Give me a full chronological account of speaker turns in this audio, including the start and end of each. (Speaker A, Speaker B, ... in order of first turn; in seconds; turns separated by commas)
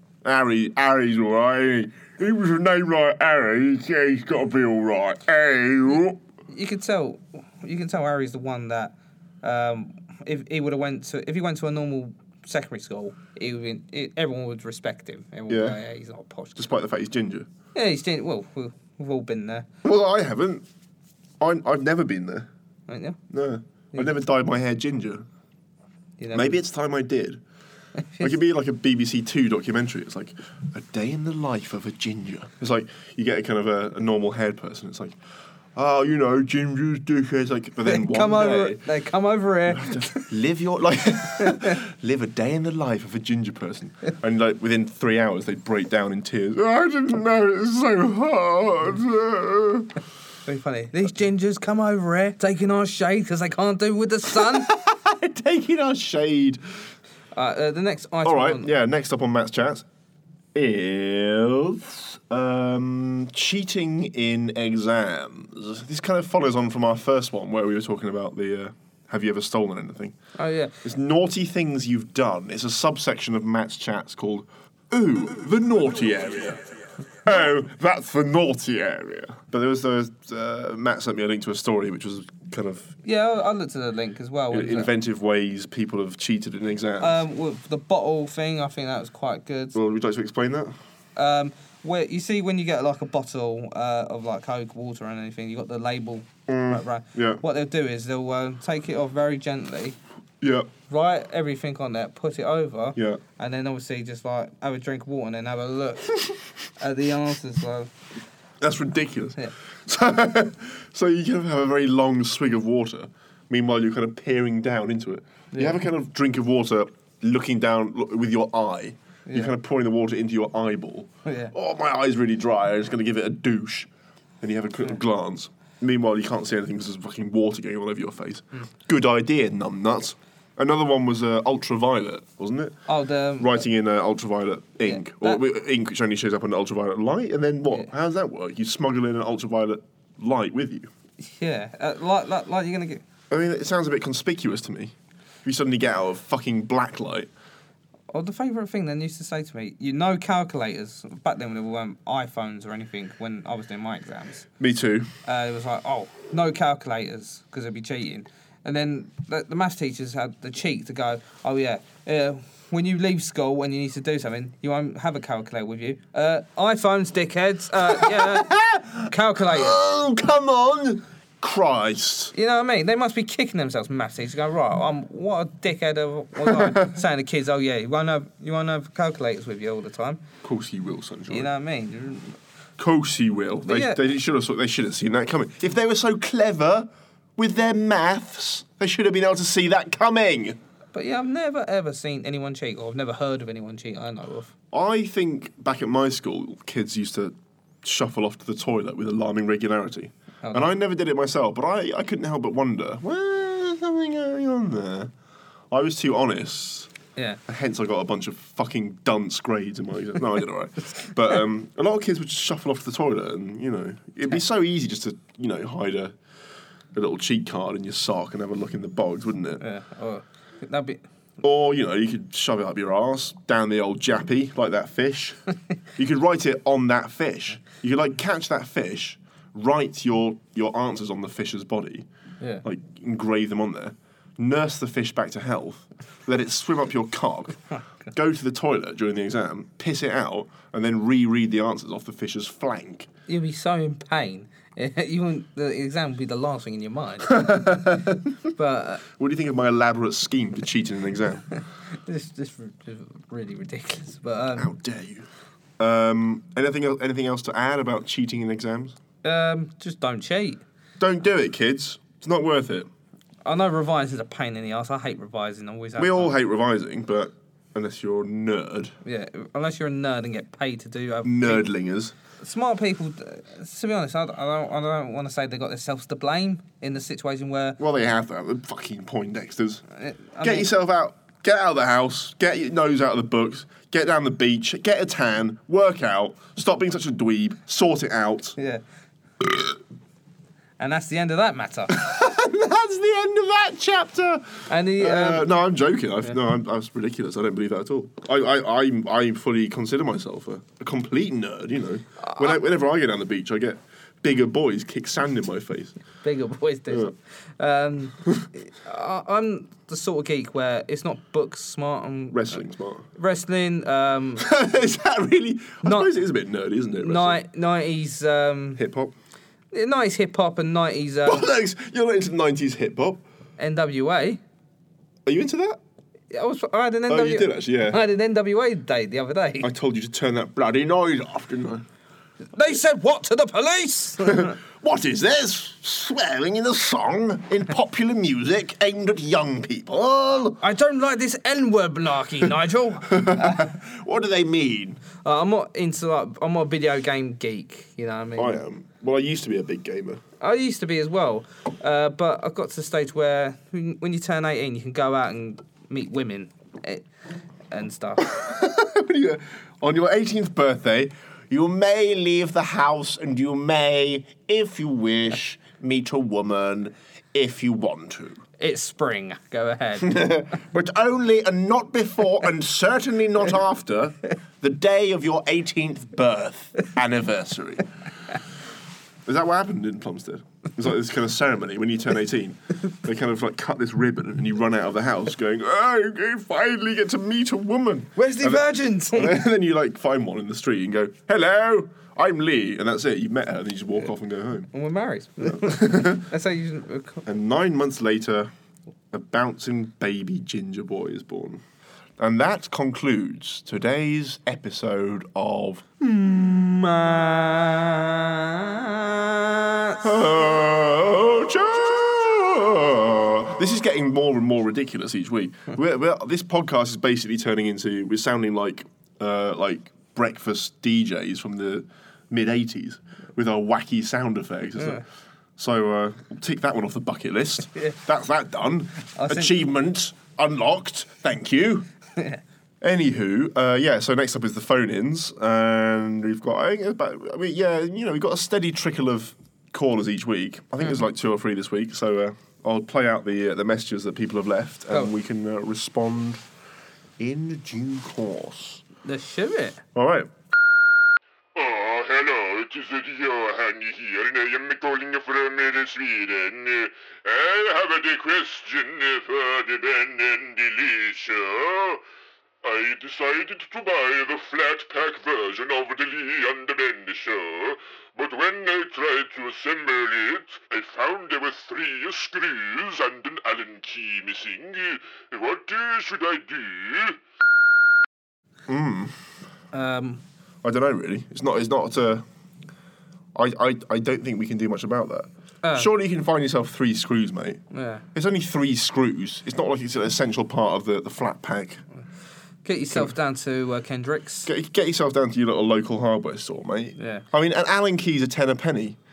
Speaker A: 0.2-6.2, Speaker B: 6.5-16.7, Speaker A: 15.5-15.8, Speaker A: 16.6-17.5, Speaker B: 17.7-19.7, Speaker A: 19.8-20.6, Speaker A: 21.4-22.5, Speaker B: 22.9-23.2, Speaker A: 23.3-25.3, Speaker B: 26.2-26.6, Speaker A: 26.3-27.4, Speaker B: 28.0-28.3, Speaker A: 28.2-35.2, Speaker A: 35.7-38.8, Speaker B: 37.8-40.3, Speaker A: 39.7-49.9, Speaker B: 41.4-41.8, Speaker B: 50.5-54.7, Speaker A: 54.3-56.6, Speaker B: 57.3-58.7, Speaker A: 58.2-59.9, Speaker A: 60.5-70.2, Speaker B: 70.4-70.8, Speaker A: 70.8-83.0, Speaker B: 83.0-84.9, Speaker A: 84.5-87.2, Speaker B: 87.0-89.8, Speaker A: 89.7-90.8, Speaker B: 91.2-100.0, Speaker A: 96.5-97.4, Speaker A: 100.4-100.7, Speaker B: 100.9-106.3, Speaker A: 103.0-103.2, Speaker B: 106.8-107.9, Speaker A: 108.6-123.9, Speaker B: 115.5-115.8, Speaker B: 119.3-119.5, Speaker B: 121.2-121.5, Speaker A: 124.4-132.8, Speaker B: 132.9-133.6, Speaker A: 133.4-140.9, Speaker B: 134.8-135.4, Speaker B: 141.2-143.0, Speaker A: 143.3-147.3, Speaker B: 148.1-154.5, Speaker A: 154.6-155.1, Speaker B: 155.3-169.8, Speaker A: 167.9-172.3, Speaker B: 172.3-180.2, Speaker A: 176.4-176.9, Speaker A: 180.4-181.5, Speaker B: 181.3-182.4, Speaker A: 182.8-190.6, Speaker B: 183.7-184.0, Speaker B: 190.9-194.5, Speaker A: 194.7-205.1, Speaker B: 200.4-200.7, Speaker A: 205.7-206.9, Speaker A: 207.5-216.2, Speaker A: 216.9-219.6, Speaker B: 219.6-221.0, Speaker A: 221.4-225.4, Speaker A: 226.0-232.1, Speaker A: 232.6-243.1, Speaker B: 243.3-247.6, Speaker A: 247.3-248.3, Speaker B: 248.5-249.0, Speaker A: 249.1-251.4, Speaker B: 251.6-254.7, Speaker A: 254.6-255.3, Speaker A: 255.8-259.0, Speaker B: 259.2-260.6, Speaker A: 261.0-262.9, Speaker B: 263.4-266.4, Speaker A: 266.0-268.9, Speaker B: 269.0-271.7, Speaker A: 271.2-272.1, Speaker B: 272.4-277.8, Speaker A: 277.8-279.8, Speaker B: 280.0-280.7, Speaker A: 280.4-288.6, Speaker B: 288.6-288.8, Speaker B: 290.8-291.9, Speaker A: 291.9-306.0, Speaker B: 294.7-295.5, Speaker B: 302.2-302.6, Speaker B: 306.2-314.5, Speaker A: 312.3-313.1, Speaker A: 314.4-317.4, Speaker B: 315.8-316.1, Speaker B: 317.0-318.8, Speaker A: 318.8-319.1, Speaker B: 319.7-321.5, Speaker A: 321.3-323.2, Speaker B: 323.6-324.4, Speaker A: 325.2-325.8, Speaker B: 326.3-329.7, Speaker A: 327.1-328.0, Speaker A: 329.6-331.9, Speaker B: 332.5-334.6, Speaker A: 334.2-340.6, Speaker B: 340.6-343.6, Speaker A: 343.0-345.0, Speaker B: 345.2-348.6, Speaker A: 348.4-350.2, Speaker B: 350.4-357.0, Speaker B: 357.7-358.3, Speaker A: 358.2-368.4, Speaker B: 368.6-370.3, Speaker A: 370.0-377.9, Speaker A: 379.2-394.7, Speaker B: 388.2-389.4, Speaker B: 394.7-397.2, Speaker A: 395.4-396.3, Speaker A: 397.2-398.5, Speaker A: 399.1-401.6, Speaker A: 402.2-405.9, Speaker B: 406.0-410.1, Speaker A: 410.0-425.0, Speaker B: 424.8-425.0, Speaker A: 425.6-431.9, Speaker B: 429.1-429.6, Speaker B: 432.2-432.4, Speaker A: 432.8-446.4, Speaker A: 447.2-448.8, Speaker B: 449.1-449.8, Speaker A: 449.9-450.3, Speaker C: 451.6-462.0, Speaker C: 462.6-477.2, Speaker A: 478.7-479.2, Speaker B: 479.7-480.2, Speaker A: 480.6-482.2, Speaker A: 483.4-487.6, Speaker B: 485.6-485.9, Speaker B: 487.7-488.0, Speaker A: 488.1-491.8, Speaker B: 492.6-494.5, Speaker A: 494.5-499.0, Speaker B: 497.0-497.2